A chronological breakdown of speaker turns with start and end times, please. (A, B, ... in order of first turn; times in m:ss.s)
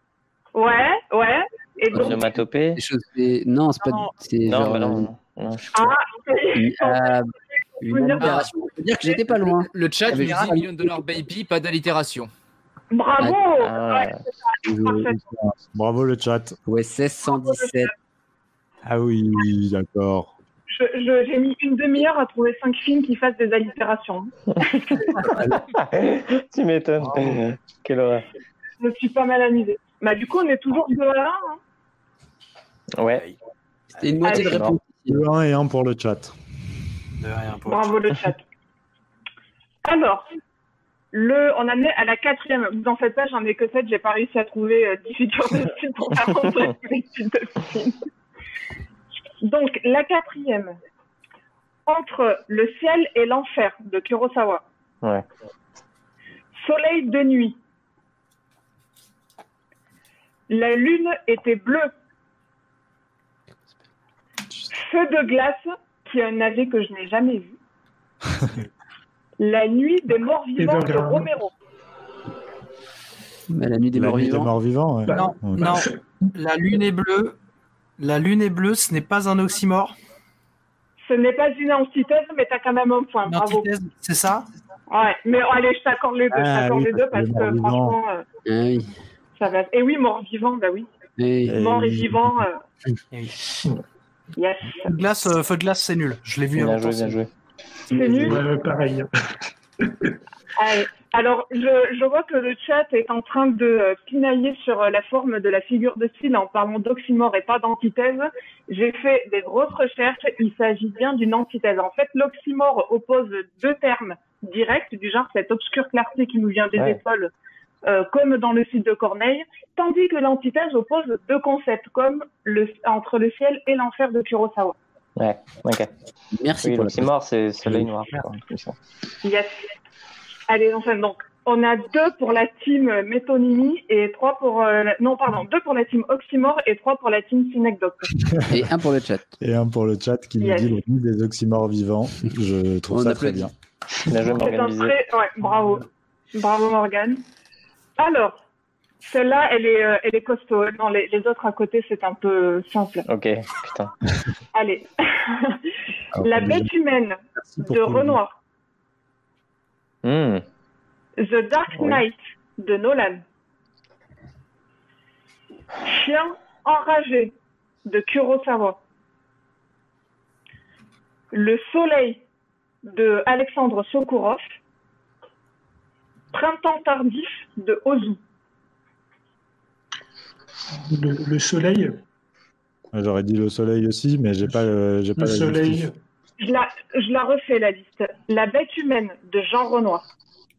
0:00.5-0:02.4 A
0:01.9-0:05.1 B
0:02.0-0:02.8 C
0:03.8-0:04.1 D
0:04.4-0:05.9 C
0:05.7-0:07.2 A
0:06.6-0:11.0 B
0:07.8-0:09.2 A
0:08.2-0:08.5 E
0:09.4-0:12.3 E
0:10.1-0:10.4 D
0:12.9-0:15.2 A
0:13.2-0:13.4 B
0:13.6-0:14.2 C
0:14.6-0:15.2 B
0:15.3-0:16.6 F
0:16.7-0:17.9 B
0:17.2-0:17.9 A
0:18.8-0:20.3 F
0:20.7-0:25.2 A
0:25.2-0:25.6 B
0:25.5-0:28.2 C
0:27.0-0:27.3 D
0:28.8-0:31.6 A
0:33.0-0:33.2 C
0:34.0-0:35.2 B
0:34.2-0:34.6 A
0:35.1-0:36.3 F
0:37.2-0:38.1 D
0:37.6-0:38.4 A
0:39.8-0:40.2 A
0:41.1-0:47.9 A
0:49.4-0:50.7 A
0:51.9-0:54.6 A
0:56.5-0:57.6 A
1:00.5-1:01.9 A
1:04.7-1:07.6 A
1:09.4-1:11.5 A
1:10.6-1:11.3 G
1:13.5-1:14.5 B
1:13.9-1:15.7 F
1:15.0-1:16.0 G
1:15.1-1:17.4 D
1:18.0-1:20.0 D
1:21.0-1:23.7 A
1:23.2-1:24.5 D
1:24.9-1:28.2 A
1:26.3-1:28.0 F
1:28.4-1:28.9 B
1:29.4-1:30.9 A
1:31.2-1:31.6 B
1:31.4-1:33.0 F
1:31.6-1:32.6 A
1:33.1-1:33.4 D
1:34.4-1:34.9 A
1:34.8-1:37.2 D
1:36.5-1:37.3 C
1:37.9-1:38.4 A
1:37.9-1:38.4 B
1:38.2-1:39.1 G
1:40.6-1:57.3 A
1:56.7-1:57.0 C
1:57.8-2:04.8 A
2:05.2-2:05.9 C
2:06.3-2:07.1 B
2:06.6-2:08.8 C
2:07.6-2:08.0 B
2:09.2-2:09.7 A
2:10.5-2:18.1 A
2:18.5-2:19.4 B
2:19.4-2:23.5 F
2:20.4-2:20.8 A
2:22.9-2:23.5 B
2:24.1-2:25.0 C
2:24.3-2:27.2 A
2:28.0-2:28.4 A
2:29.0-2:33.0 A
2:33.0-2:33.9 C
2:34.5-2:35.7 A
2:36.1-2:36.7 F
2:36.2-2:38.4 A
2:37.4-2:38.2 F
2:40.0-2:40.4 C
2:41.2-2:43.2 A
2:45.8-2:47.3 A
2:47.8-2:48.8 A
2:51.3-2:52.2 A
2:52.8-2:54.4 A
2:56.3-2:58.2 A
3:00.9-3:01.9 G
3:02.9-3:05.9 F
3:05.2-3:05.9 G
3:06.4-3:10.0 A